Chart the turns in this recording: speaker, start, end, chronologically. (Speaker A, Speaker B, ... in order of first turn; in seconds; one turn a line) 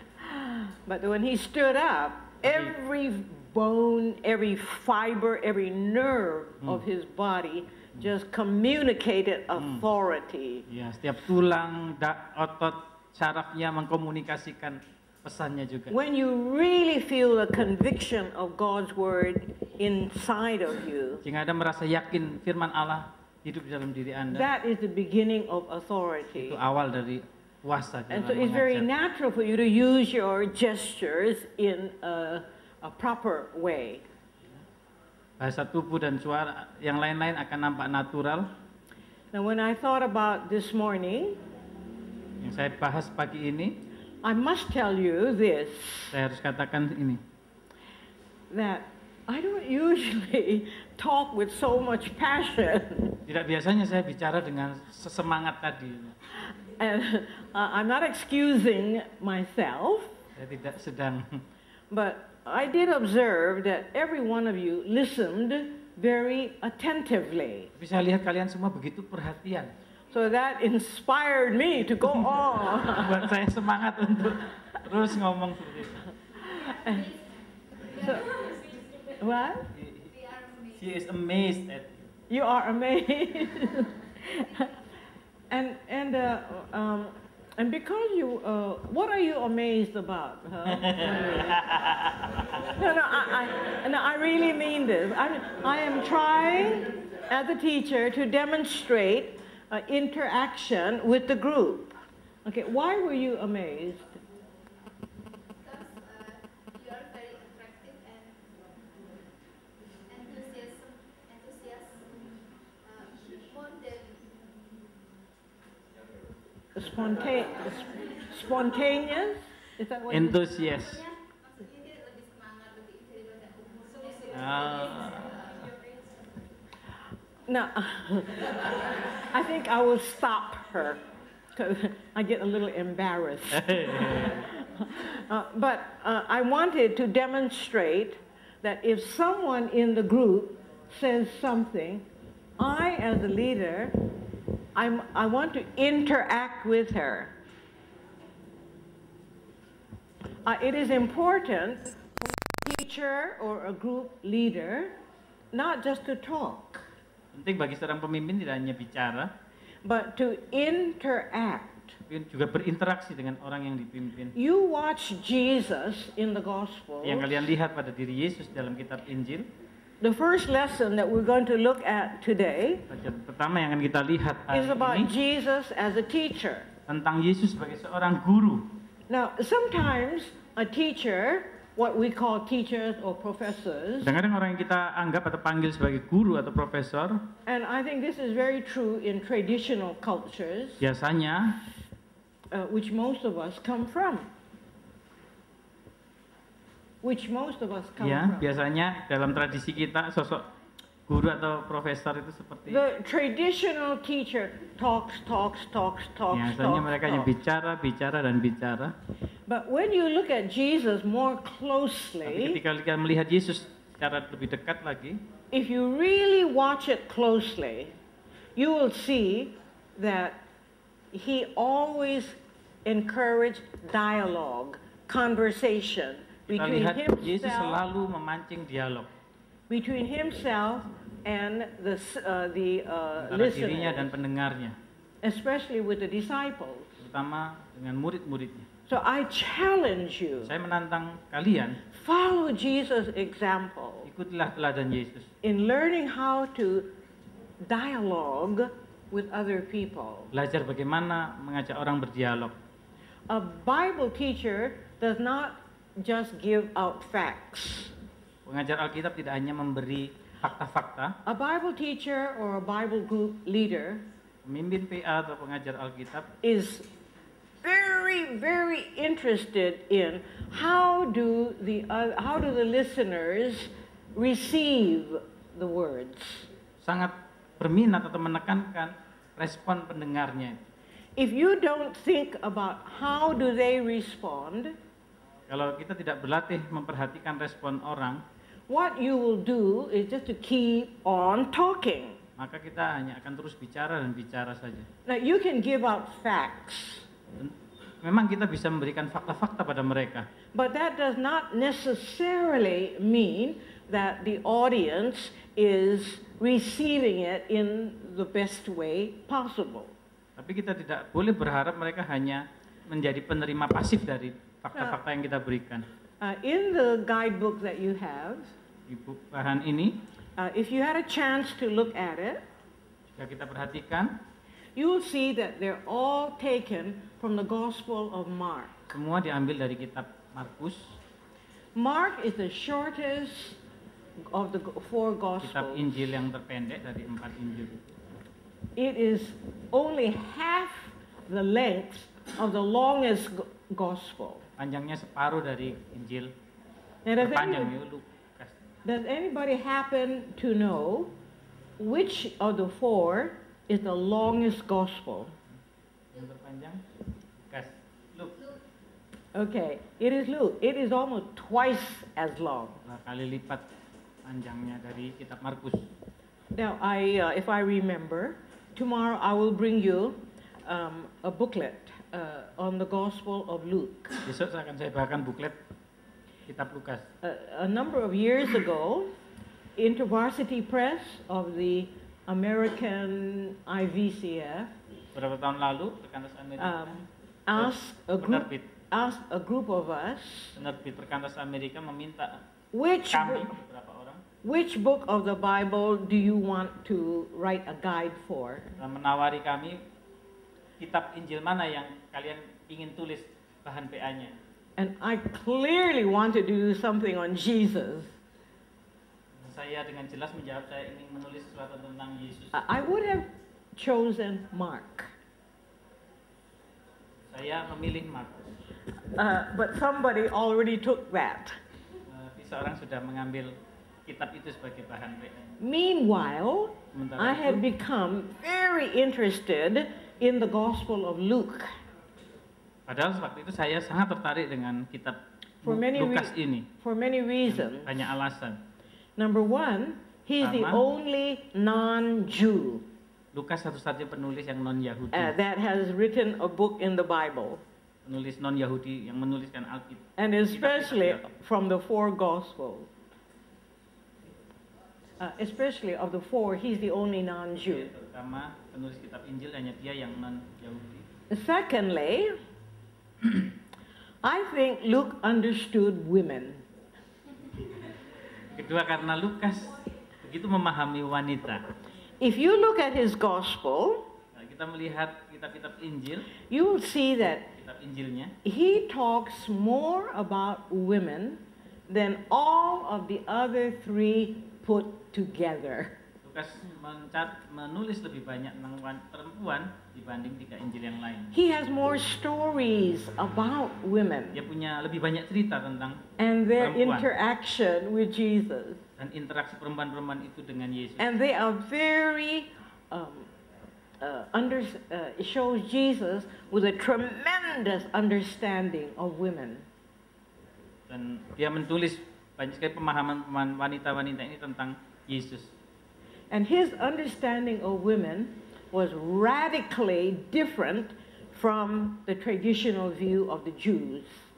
Speaker A: 0.2-10.7
Speaker B: 2.4-2.8
Speaker B: 9.6-9.8
Speaker B: 10.7-15.9
Speaker A: 15.9-21.2
Speaker B: 21.2-24.5
Speaker A: 24.3-26.6
Speaker B: 26.4-28.9
Speaker A: 28.1-34.0
Speaker B: 35.4-38.5
Speaker A: 39.3-41.4
Speaker B: 42.4-43.8
Speaker A: 44.2-46.1
Speaker B: 46.1-47.2
Speaker A: 48.5-53.2
Speaker B: 53.3-56.2
Speaker A: 56.8-60.1
Speaker B: 60.4-61.4
Speaker A: 61.9-67.7
Speaker B: 67.8-69.7
Speaker A: 70.1-73.3
Speaker B: 72.8-76.1
Speaker A: 76.3-77.1
Speaker C: 76.5-79.2
Speaker A: 77.9-78.4
Speaker A: 79.2-79.7
Speaker B: 79.7-80.1
Speaker C: 80.1-80.8
Speaker B: 80.8-82.1
Speaker A: 82.3-84.7
Speaker A: 85.5-91.7
Speaker B: 90.7-92.7
Speaker A: 92.7-104.1
Speaker C: 105.6-108.5
Speaker C: 110.1-114.8
Speaker A: 116.8-120.4
Speaker B: 120.1-121.0
Speaker C: 120.9-126.3
Speaker B: 124.3-125.5
Speaker A: 127.5-131.0
Speaker A: 131.5-142.1
Speaker B: 133.5-134.5
Speaker A: 142.6-144.0
Speaker A: 144.8-147.3
Speaker A: 150.4-151.9
Speaker A: 152.6-155.0
Speaker A: 155.5-156.8
Speaker B: 157.3-159.3
Speaker A: 159.8-162.0
Speaker B: 162.1-164.4
Speaker A: 164.4-167.4
Speaker B: 167.0-169.5
Speaker A: 170.0-172.9
Speaker B: 172.9-175.1
Speaker A: 174.5-176.7
Speaker B: 176.9-178.8
Speaker A: 179.1-184.1
Speaker B: 184.0-187.3
Speaker A: 187.5-190.8
Speaker B: 190.8-191.6
Speaker A: 192.5-194.3
Speaker A: 197.0-198.5
Speaker B: 198.0-200.5
Speaker B: 201.1-202.8
Speaker A: 202.7-207.3
Speaker B: 206.3-208.9
Speaker A: 209.5-212.6
Speaker B: 212.2-215.2
Speaker A: 215.5-217.9
Speaker A: 218.6-220.4
Speaker A: 221.1-227.8
Speaker B: 226.5-229.1
Speaker A: 229.7-234.1
Speaker B: 233.2-234.8
Speaker A: 235.2-237.0
Speaker B: 237.0-238.7
Speaker A: 238.9-240.5
Speaker B: 240.4-241.8
Speaker A: 241.9-244.1
Speaker B: 244.0-245.3
Speaker A: 245.4-246.9
Speaker A: 247.6-250.3
Speaker B: 250.3-252.6
Speaker A: 253.3-257.9
Speaker B: 258.4-261.1
Speaker A: 261.2-264.1
Speaker B: 264.4-266.3
Speaker A: 266.4-266.9
Speaker A: 267.6-276.5
Speaker B: 276.8-280.6
Speaker A: 281.2-284.8
Speaker B: 285.5-288.2
Speaker A: 288.7-292.2
Speaker B: 292.4-294.9
Speaker A: 295.1-297.1
Speaker B: 297.4-300.3
Speaker A: 300.5-309.9
Speaker B: 310.4-315.9
Speaker A: 316.2-318.5
Speaker B: 318.9-320.0
Speaker A: 320.4-322.4
Speaker B: 323.1-324.2
Speaker A: 324.8-328.9
Speaker B: 328.9-331.0
Speaker A: 331.8-333.6
Speaker A: 334.3-335.9
Speaker B: 335.4-338.0
Speaker A: 338.8-344.5
Speaker B: 344.6-346.3
Speaker A: 347.1-347.7
Speaker B: 347.2-348.6
Speaker A: 348.9-351.2
Speaker A: 351.8-355.3
Speaker B: 356.1-356.8
Speaker B: 357.5-358.4
Speaker A: 359.3-362.8
Speaker B: 362.9-363.6
Speaker B: 364.2-365.9
Speaker A: 366.5-374.2
Speaker B: 374.3-375.6
Speaker B: 376.5-377.1
Speaker A: 377.2-379.1
Speaker A: 379.8-384.7
Speaker B: 385.1-387.0
Speaker A: 386.6-390.6
Speaker B: 387.6-388.7
Speaker B: 390.6-392.4
Speaker A: 392.7-393.6
Speaker B: 393.1-394.2
Speaker A: 394.4-398.7
Speaker B: 398.8-399.8
Speaker B: 400.8-404.4
Speaker A: 404.8-408.1
Speaker B: 409.4-412.6
Speaker A: 412.5-415.1
Speaker B: 417.3-418.5
Speaker A: 419.1-421.6
Speaker B: 422.1-423.5
Speaker B: 424.1-425.5
Speaker A: 425.6-431.7
Speaker B: 426.9-427.6
Speaker B: 432.9-436.7
Speaker A: 435.6-437.9
Speaker B: 437.5-438.6
Speaker A: 439.2-442.9
Speaker B: 440.4-440.8
Speaker B: 443.3-445.3
Speaker A: 445.1-447.6
Speaker B: 448.1-451.3
Speaker A: 450.2-452.9
Speaker A: 455.2-457.9
Speaker B: 457.6-461.1
Speaker A: 461.3-462.4
Speaker A: 464.2-466.6
Speaker B: 468.5-471.6
Speaker A: 472.2-474.1
Speaker B: 474.4-476.3
Speaker A: 476.5-477.5
Speaker B: 477.2-478.3
Speaker A: 478.4-486.0
Speaker B: 486.2-491.3
Speaker A: 491.3-494.4
Speaker B: 494.3-496.0
Speaker A: 496.2-498.8
Speaker B: 496.6-497.1
Speaker B: 499.0-501.1
Speaker A: 501.0-503.3
Speaker A: 504.0-509.6
Speaker B: 510.9-515.5
Speaker A: 516.3-524.2